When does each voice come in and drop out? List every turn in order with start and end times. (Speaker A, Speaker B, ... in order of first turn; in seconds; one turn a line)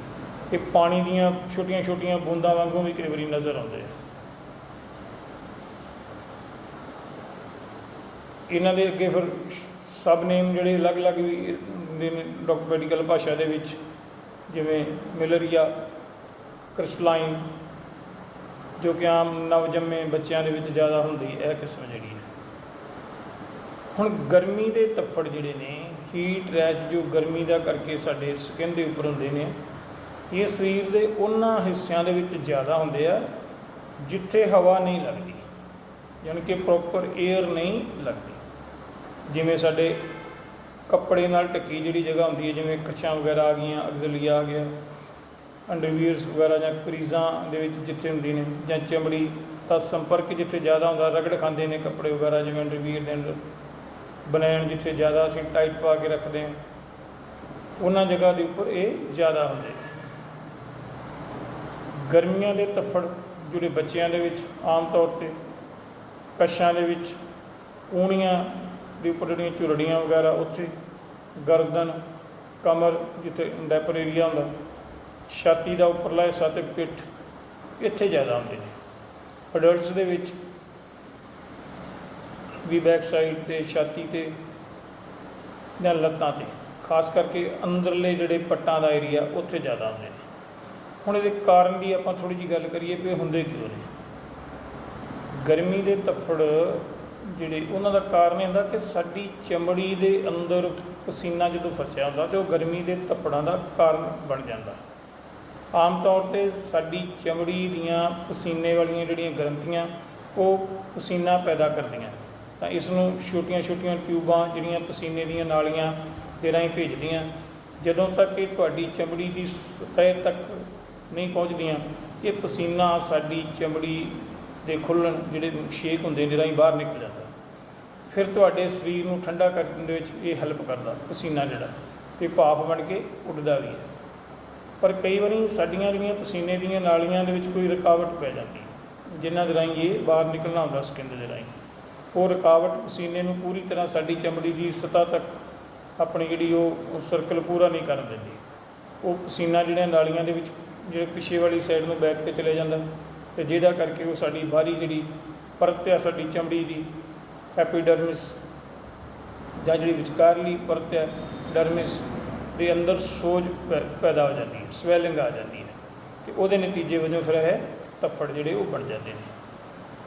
Speaker A: 0.5-3.9
Speaker A: 8.5-13.8
Speaker A: 14.5-15.7
Speaker A: 16.7-17.5
Speaker A: 18.8-22.3
Speaker A: 23.9-29.6
Speaker A: 30.3-33.3
Speaker A: 34.0-35.5
Speaker A: 36.2-38.4
Speaker A: 39.3-40.0
Speaker A: 40.9-44.7
Speaker A: 45.7-53.4
Speaker A: 54.3-56.6
Speaker A: 57.8-59.8
Speaker A: 62.0-65.4
Speaker A: 66.4-67.2
Speaker A: 67.9-70.7
Speaker A: 71.4-72.0
Speaker A: 72.6-74.5
Speaker A: 75.3-77.1
Speaker A: 77.8-78.7
Speaker A: 79.5-80.4
Speaker A: 82.6-84.4
Speaker A: 85.8-90.2
Speaker A: 91.0-93.9
Speaker A: 95.3-104.8
Speaker A: 105.7-117.3
Speaker A: 117.8-127.3
Speaker A: 128.1-133.9
Speaker A: 134.8-141.5
Speaker A: 142.1-145.4
Speaker A: 146.0-148.4
Speaker A: 149.0-156.9
Speaker A: 157.6-158.4
Speaker A: 159.6-169.3